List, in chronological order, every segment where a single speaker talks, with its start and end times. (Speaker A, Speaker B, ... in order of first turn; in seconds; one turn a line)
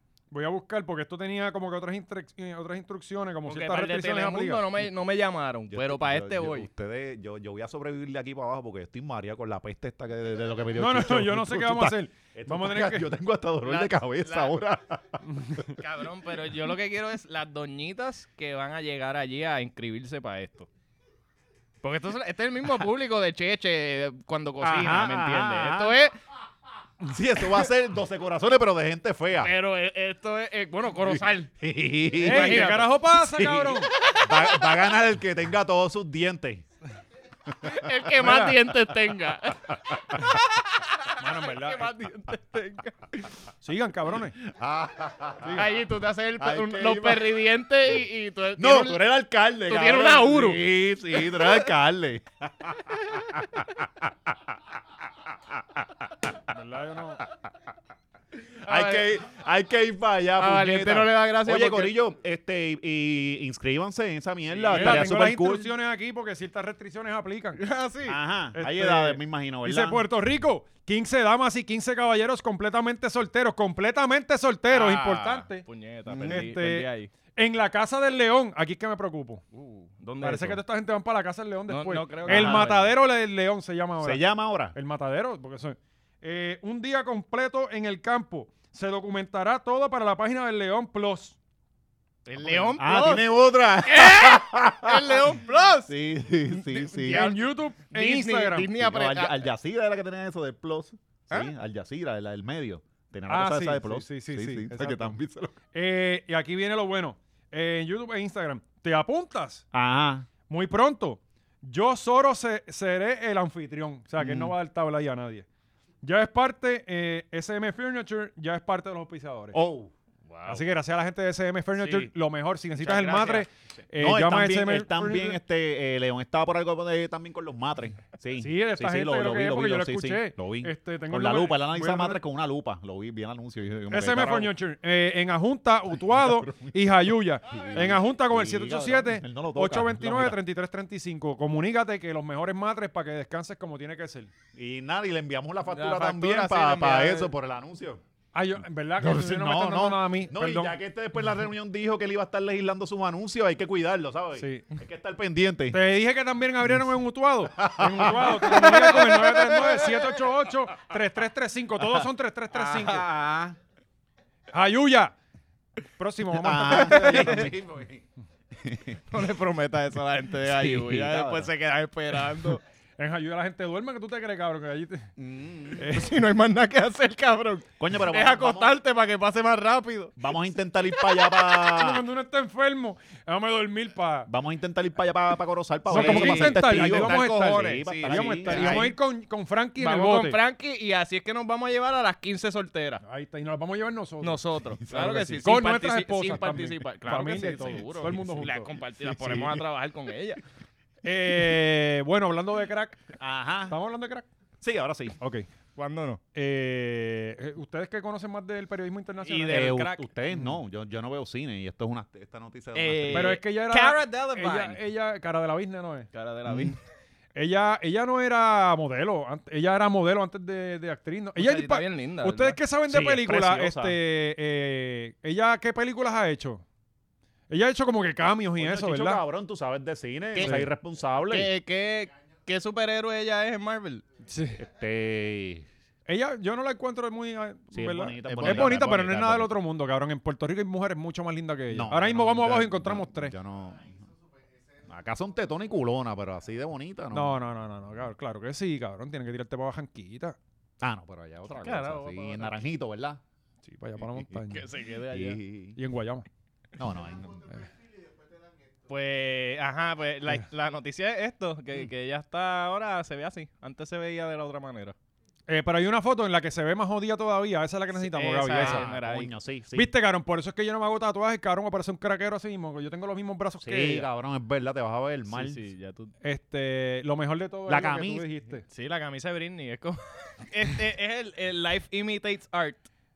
Speaker A: 0.3-4.6
Speaker B: 3.5-6.7
Speaker C: 5.7-15.6
Speaker A: 10.8-13.1
Speaker B: 13.6-14.5
Speaker A: 15.3-15.7
Speaker B: 15.8-20.7
Speaker B: 21.8-26.1
Speaker C: 24.6-26.0
Speaker C: 27.1-29.5
Speaker B: 29.4-31.5
Speaker C: 31.0-36.6
Speaker B: 32.1-33.0
Speaker A: 32.2-33.9
Speaker B: 34.0-34.8
Speaker B: 37.6-43.3
Speaker C: 37.9-38.9
Speaker A: 41.2-41.9
Speaker A: 43.6-44.4
Speaker C: 44.4-45.7
Speaker B: 45.4-49.1
Speaker C: 46.4-47.4
Speaker C: 48.6-54.6
Speaker B: 49.6-51.6
Speaker C: 55.2-56.4
Speaker A: 56.5-57.2
Speaker B: 58.6-59.1
Speaker C: 58.6-65.7
Speaker B: 60.4-62.0
Speaker B: 64.5-65.1
Speaker A: 64.8-67.6
Speaker B: 67.6-68.2
Speaker C: 68.0-70.0
Speaker A: 68.5-75.6
Speaker B: 74.7-77.1
Speaker C: 74.8-75.4
Speaker C: 76.1-76.5
Speaker A: 76.2-79.4
Speaker B: 79.5-80.6
Speaker A: 80.2-84.2
Speaker B: 81.7-82.9
Speaker C: 82.2-82.7
Speaker C: 84.0-84.8
Speaker A: 84.7-91.4
Speaker B: 92.2-93.3
Speaker A: 92.4-92.7
Speaker C: 92.7-95.3
Speaker B: 93.8-95.9
Speaker C: 95.9-97.3
Speaker B: 96.5-99.5
Speaker A: 97.0-98.7
Speaker C: 98.7-105.5
Speaker A: 103.3-105.2
Speaker A: 105.7-109.6
Speaker C: 109.7-110.3
Speaker A: 110.5-115.5
Speaker C: 114.2-114.5
Speaker A: 116.0-119.6
Speaker C: 119.5-119.9
Speaker B: 120.3-120.6
Speaker A: 120.5-125.4
Speaker B: 121.8-122.1
Speaker B: 122.8-123.5
Speaker C: 123.9-134.5
Speaker A: 128.3-132.2
Speaker A: 133.9-144.3
Speaker C: 135.9-140.4
Speaker C: 144.5-148.0
Speaker B: 145.7-147.3
Speaker A: 148.3-150.8
Speaker C: 149.0-155.8
Speaker A: 154.3-154.7
Speaker A: 155.7-163.1
Speaker C: 157.5-159.0
Speaker B: 158.4-159.7
Speaker C: 162.5-163.6
Speaker A: 164.5-165.1
Speaker A: 166.0-167.5
Speaker C: 166.3-169.0
Speaker B: 166.7-167.5
Speaker B: 169.1-172.6
Speaker C: 170.4-171.5
Speaker A: 173.0-175.1
Speaker C: 175.2-176.0
Speaker A: 175.8-176.1
Speaker B: 175.9-180.2
Speaker C: 177.8-178.8
Speaker C: 180.2-182.1
Speaker B: 181.0-181.5
Speaker A: 181.7-184.3
Speaker C: 184.3-188.9
Speaker A: 185.9-190.4
Speaker B: 185.9-188.9
Speaker B: 189.8-193.0
Speaker A: 193.0-198.7
Speaker B: 194.2-200.4
Speaker C: 194.8-195.4
Speaker C: 198.1-198.5
Speaker C: 199.0-199.6
Speaker A: 201.0-203.0
Speaker C: 203.2-203.8
Speaker A: 203.7-204.3
Speaker C: 204.6-205.2
Speaker A: 205.2-205.5
Speaker B: 205.8-206.2
Speaker A: 206.3-210.0
Speaker B: 209.2-209.8
Speaker C: 209.5-213.4
Speaker B: 212.7-214.8
Speaker A: 213.1-216.1
Speaker B: 216.1-216.8
Speaker C: 216.5-216.7
Speaker A: 217.3-226.6
Speaker B: 221.4-222.6
Speaker C: 222.9-224.0
Speaker A: 227.5-229.2
Speaker C: 228.6-231.5
Speaker B: 230.3-230.6
Speaker A: 230.4-230.7
Speaker B: 231.3-234.0
Speaker A: 234.3-234.6
Speaker C: 234.6-235.7
Speaker A: 236.1-243.3
Speaker C: 237.7-239.5
Speaker B: 238.3-239.0
Speaker C: 241.7-244.1
Speaker C: 244.8-247.4
Speaker A: 247.1-250.4
Speaker C: 250.8-253.2
Speaker B: 251.5-252.6
Speaker A: 253.6-254.6
Speaker B: 254.5-255.4
Speaker C: 255.1-255.8
Speaker A: 255.8-256.2
Speaker C: 256.8-257.5
Speaker B: 258.9-264.9
Speaker A: 265.5-268.9
Speaker B: 267.9-269.3
Speaker C: 268.5-269.9
Speaker A: 269.7-274.1
Speaker C: 273.6-275.6
Speaker B: 275.3-276.1
Speaker A: 276.2-278.6
Speaker C: 277.7-278.3
Speaker B: 278.7-282.9